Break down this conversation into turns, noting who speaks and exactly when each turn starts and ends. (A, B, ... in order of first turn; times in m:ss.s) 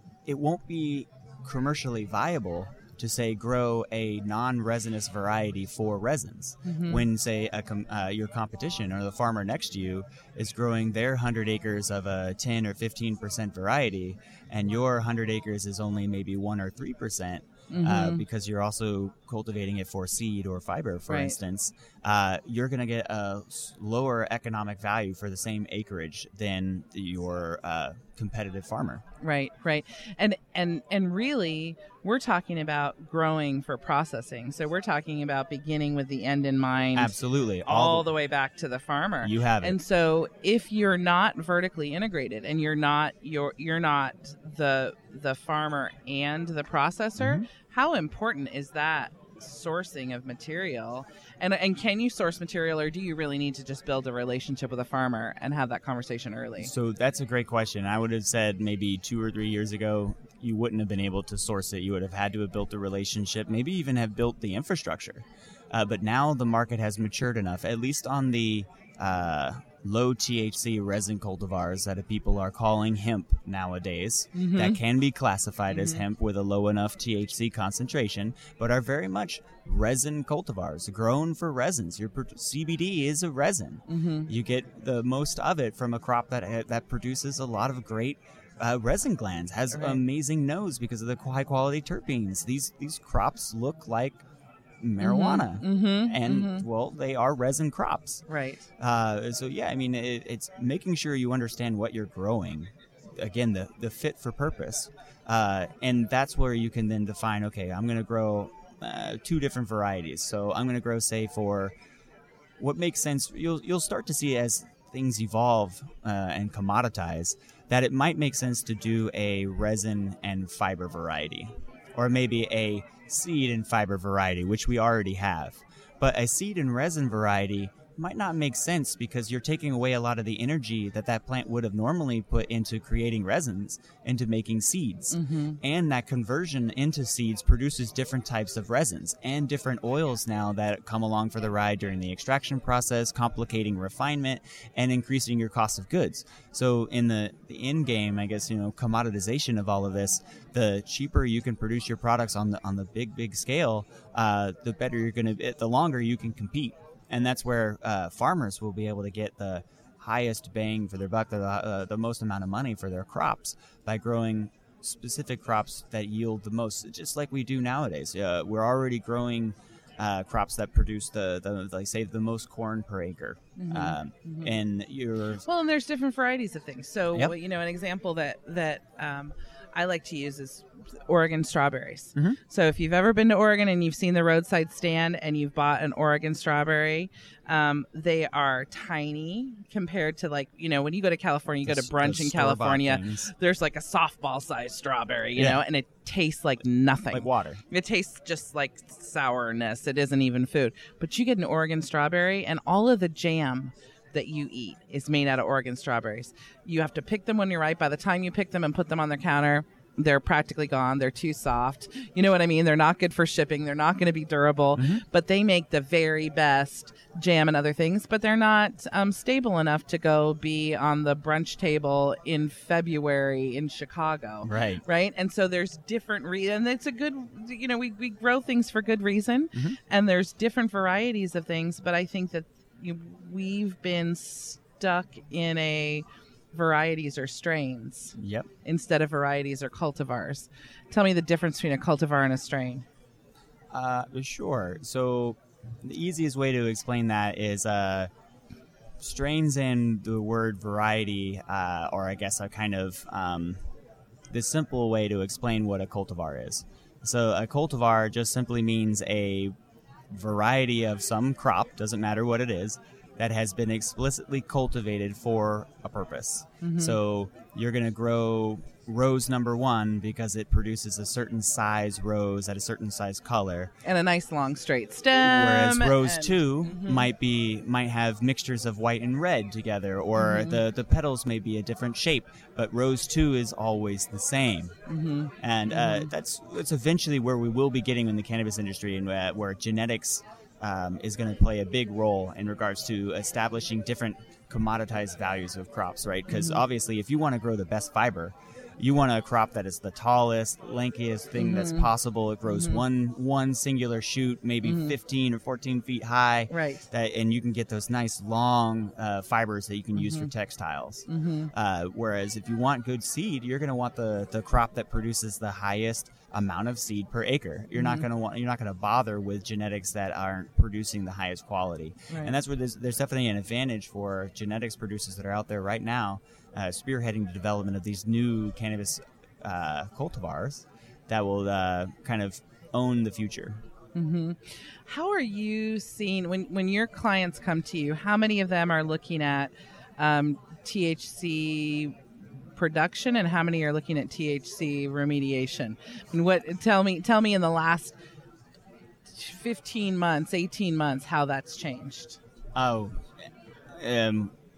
0:00.3-0:29.0 A
0:06.6-0:07.0 B
0:17.7-0:18.2 B
0:21.1-0:21.3 B
0:29.2-0:37.1 B
0:37.0-0:38.1 A
0:37.7-0:56.7 B
0:39.2-0:39.8 A
0:47.2-0:47.5 A
0:56.6-1:34.2 A
1:14.4-1:14.8 B
1:15.7-1:16.0 B
1:23.9-1:24.3 B
1:29.7-1:30.0 B
1:34.8-1:38.2 A
1:35.0-1:36.6 B
1:38.3-1:38.6 B
1:38.8-1:51.7 A
1:52.6-2:55.4 A
2:15.1-2:15.6 B
2:53.6-2:54.5 B
2:55.4-4:02.8 B
3:11.6-3:13.3 A
3:17.1-3:17.6 A
3:34.8-3:35.0 A
3:44.4-3:44.8 A
3:58.2-3:58.5 A
4:03.7-4:08.1 A
4:09.0-4:13.6 A
4:14.3-4:19.5 A
4:20.1-4:33.7 A
4:26.6-4:27.0 B
4:33.8-4:37.1 B
4:35.1-4:44.7 A
4:40.2-4:40.6 B
4:44.9-4:46.1 B
4:45.4-5:33.6 A
4:56.3-4:56.6 B
5:01.4-5:01.9 B
5:02.5-5:02.8 B
5:04.6-5:04.9 B
5:06.5-5:06.8 B
5:11.1-5:11.5 B
5:17.8-5:18.0 B
5:34.0-5:42.0 B
5:42.6-5:48.0 B
5:49.1-5:52.2 B
5:52.6-5:53.1 A
5:53.7-5:54.3 A